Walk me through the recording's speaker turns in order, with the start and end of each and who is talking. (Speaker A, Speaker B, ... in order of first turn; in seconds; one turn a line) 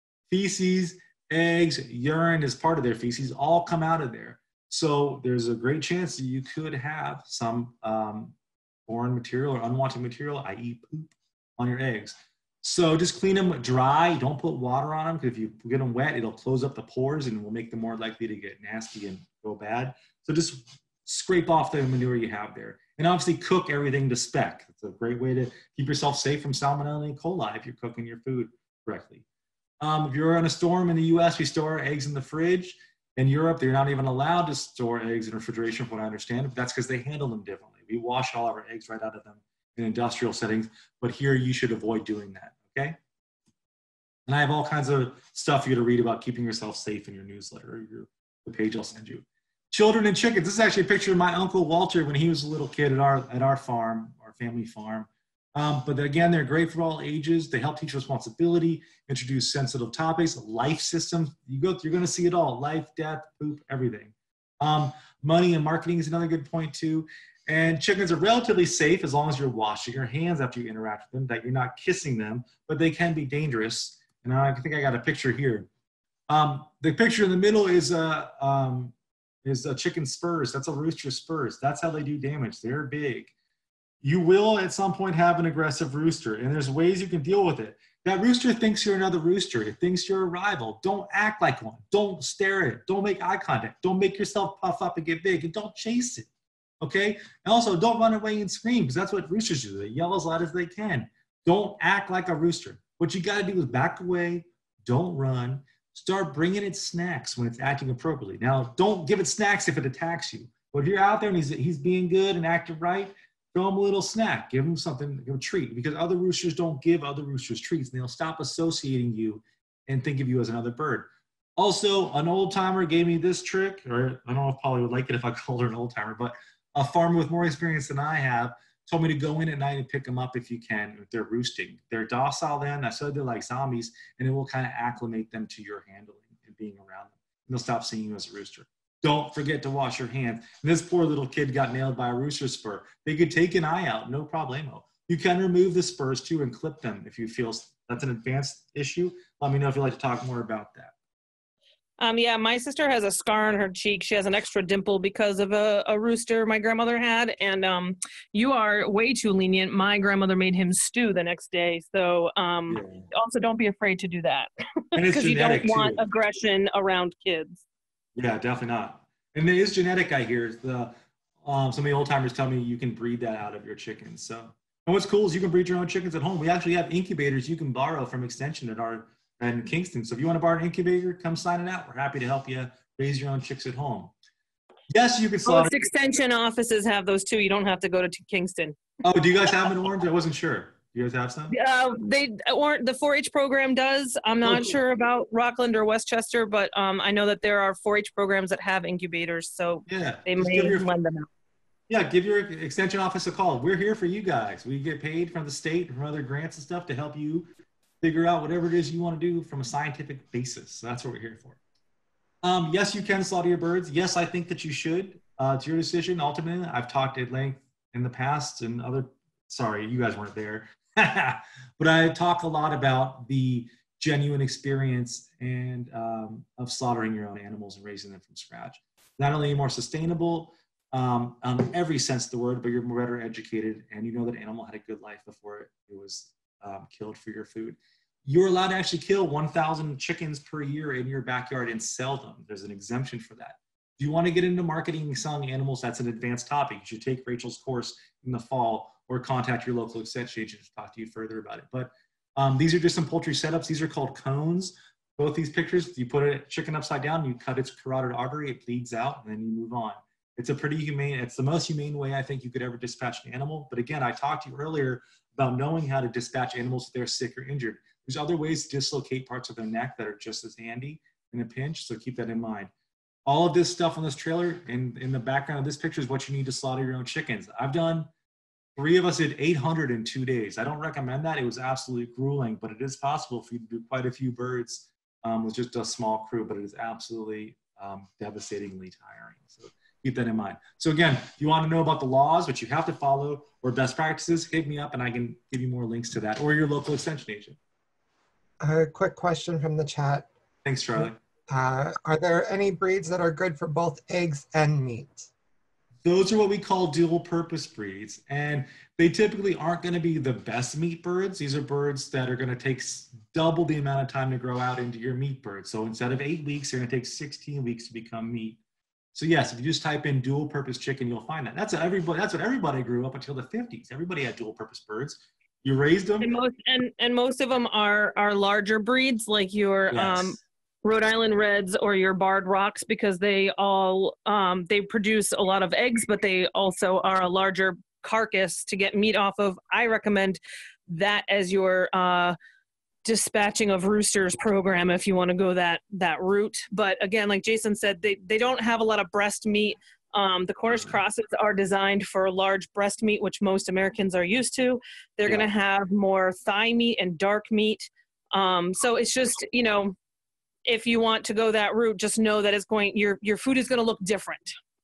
Speaker A: 0.3-8.3
Speaker A: 8.9-29.2
Speaker A: 29.8-43.0
Speaker A: 44.3-75.7
Speaker A: 76.3-78.9
Speaker A: 79.4-83.3
Speaker A: 84.0-96.3
Speaker A: 96.8-150.9
Speaker B: 152.0-167.6
Speaker A: 162.7-163.1
Speaker A: 164.9-166.0
Speaker A: 168.2-184.1
Speaker A: 184.9-185.7
Speaker B: 185.4-188.8
Speaker A: 189.0-191.5
Speaker B: 191.5-201.3
Speaker A: 194.4-194.8
Speaker A: 199.9-200.9
Speaker A: 201.9-207.5
Speaker A: 208.0-211.6
Speaker A: 212.4-272.7
Speaker A: 273.2-278.1
Speaker A: 278.8-297.6
Speaker C: 298.6-300.3
Speaker A: 300.6-301.2
Speaker C: 301.0-305.3
Speaker A: 306.0-318.6
Speaker A: 319.1-326.3
Speaker B: 326.2-342.4
Speaker A: 329.9-330.4
Speaker B: 343.0-359.9
Speaker A: 350.7-351.0
Speaker B: 360.7-364.5